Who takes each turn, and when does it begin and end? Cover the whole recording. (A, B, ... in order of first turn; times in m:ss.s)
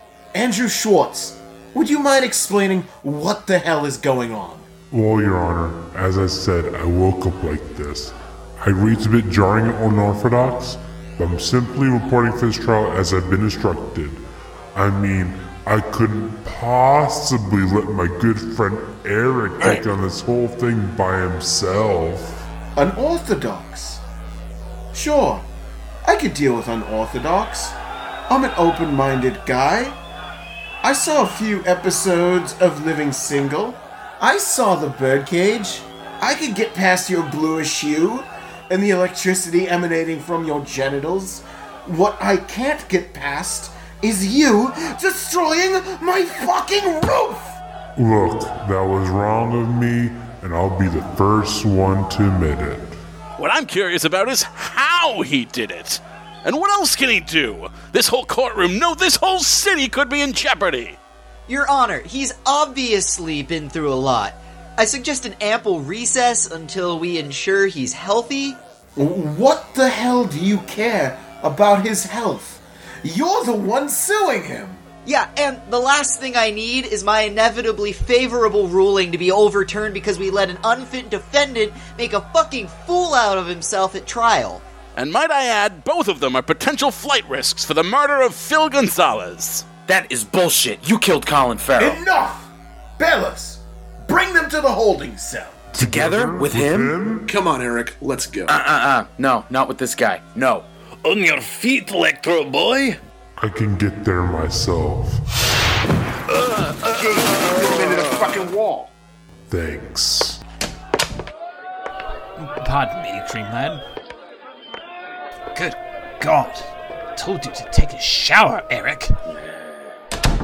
0:00.3-0:04.7 A
0:04.9-0:14.2 B
0:14.8-0:22.4 B
0:22.8-0:24.0 A
0:24.9-0:25.5 A
0:26.0-0:27.8 A
0:28.3-0:30.0 A
0:30.8-0:47.6 A
0:48.0-0:53.0 B
0:53.4-1:01.0 C
1:01.5-1:08.6 D
1:09.0-1:14.8 A
1:15.0-1:24.7 D
1:25.0-1:29.7 C
1:29.9-1:32.0 E
1:31.8-1:35.6 A
1:35.8-1:36.9 E
1:35.8-1:37.3 B
1:38.5-1:40.7 E
1:41.0-1:43.0 F
1:43.4-1:45.2 B
1:49.5-1:50.4 B
1:52.4-1:53.8 G
1:55.5-1:59.2 G
1:59.3-1:59.9 E